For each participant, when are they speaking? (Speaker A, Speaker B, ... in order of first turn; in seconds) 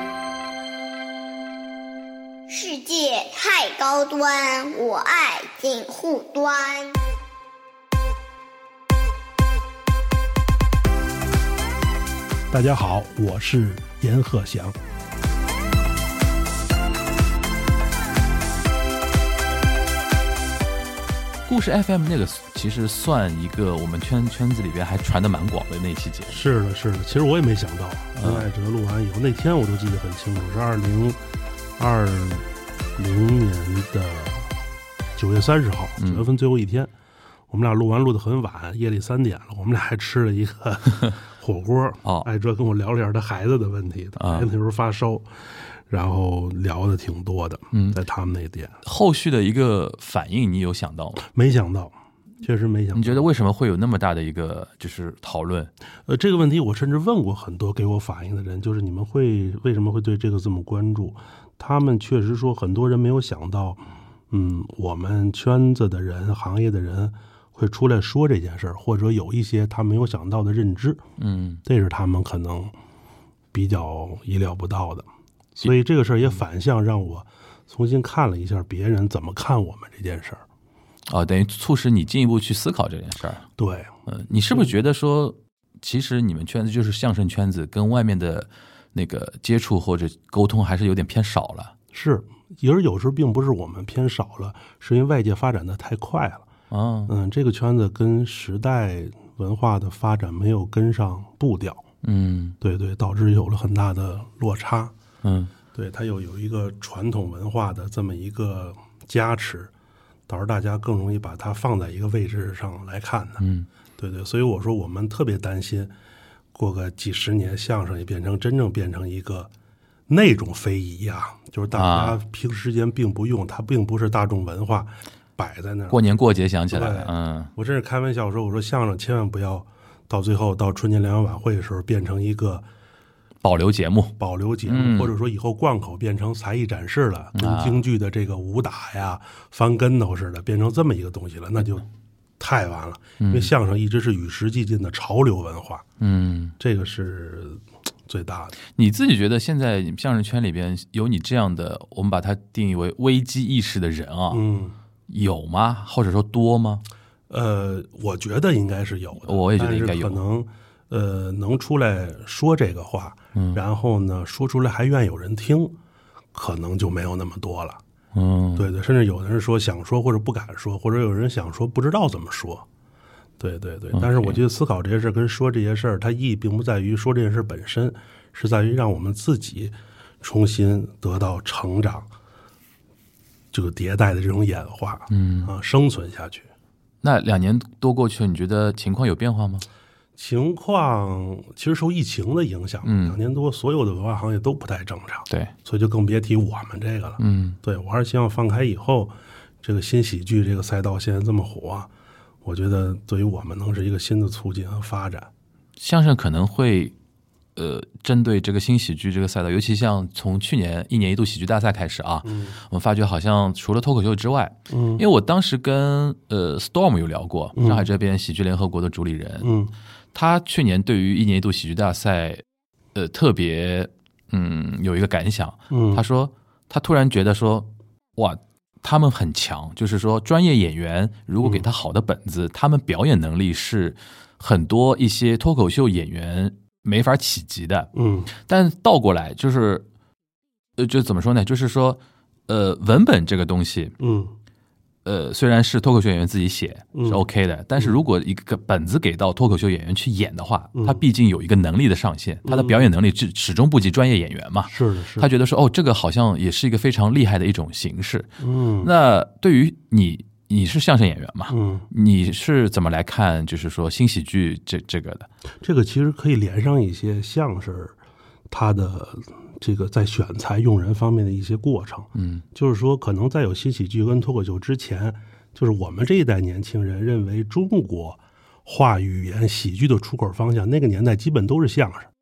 Speaker A: 2.5-7.0
Speaker B: 12.5-14.8, 26.3-31.2, 31.8-34.5, 35.1-36.9, 37.5-45.3, 45.9-48.8, 51.3-53.3, 56.1-71.0, 71.6-72.7, 73.5-80.4, 83.6-83.9, 91.9-96.5, 97.1-101.8, 102.6-104.9, 105.7-109.7, 110.3-113.4, 114.0-115.9, 116.5-119.5, 120.1-126.0, 126.7-132.6, 134.2-141.9, 142.4-145.8, 146.6-148.6, 154.3-154.7, 157.3-165.8, 166.3-167.8, 168.6-172.6, 173.4-182.1, 183.5-186.5, 190.2-201.9, 202.4-205.3, 212.2-212.6, 214.7-215.0, 217.6-217.9, 219.4-219.7, 225.7-226.0, 237.9-238.3, 244.0-244.3, 246.9-247.2, 250.7-251.0, 252.4-252.9, 254.7-255.3, 258.4-258.9, 261.5-261.9, 265.6-267.9, 268.5-282.1
Speaker C: 21.4-26.4, 28.2-28.5, 36.0-36.2, 44.2-44.5, 48.8-51.2, 52.9-55.7, 71.2-71.6, 81.1-83.4, 84.1-91.7, 96.7-97.1, 102.0-102.6, 105.2-105.5, 113.4-113.7, 121.7-122.2, 125.9-127.5, 133.4-134.2, 134.7-135.1, 137.4-137.8, 143.2-143.5, 146.0-146.5, 148.7-154.4, 155.1-156.8, 159.2-160.2, 168.1-168.6, 173.9-174.4, 185.1-185.5, 187.0-189.6, 192.8-193.2, 197.2-197.6, 205.8-206.9, 207.6-219.5, 220.1-222.4, 222.9-239.8, 240.8-243.9, 245.0-258.3, 258.8-265.3, 272.1-272.4